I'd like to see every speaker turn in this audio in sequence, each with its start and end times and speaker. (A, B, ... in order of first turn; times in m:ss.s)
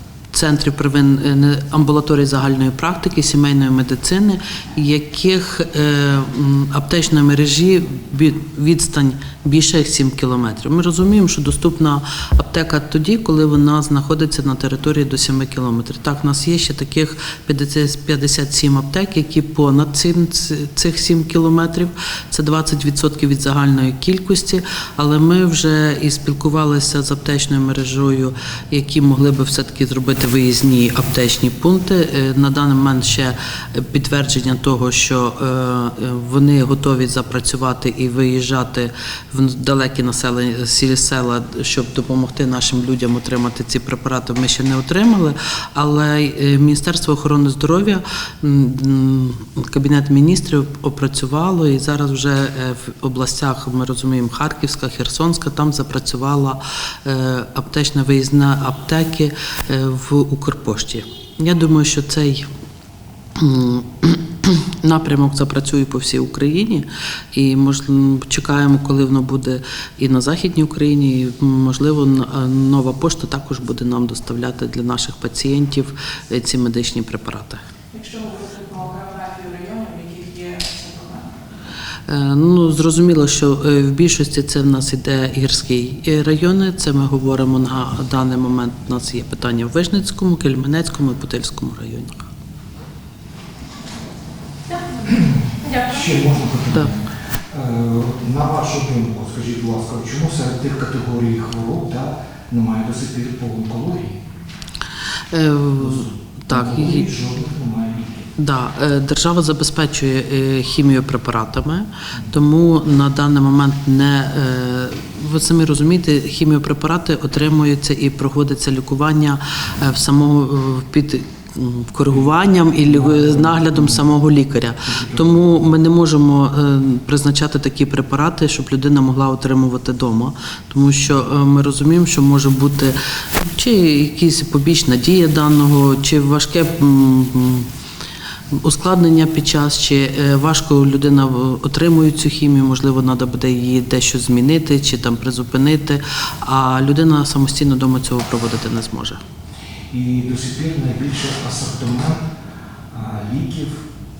0:00.3-1:02.5 A
1:03.4-1:17.6 A
1:17.9-1:21.3 B
1:22.1-1:32.3 A
1:34.9-1:44.2 C
1:45.3-1:47.1 A
1:45.8-1:48.3 C
1:48.4-2:17.7 A
2:02.9-2:04.1 C
2:04.9-2:05.3 C
2:18.5-2:29.2 A
2:29.9-2:32.2 C
2:32.9-2:33.8 C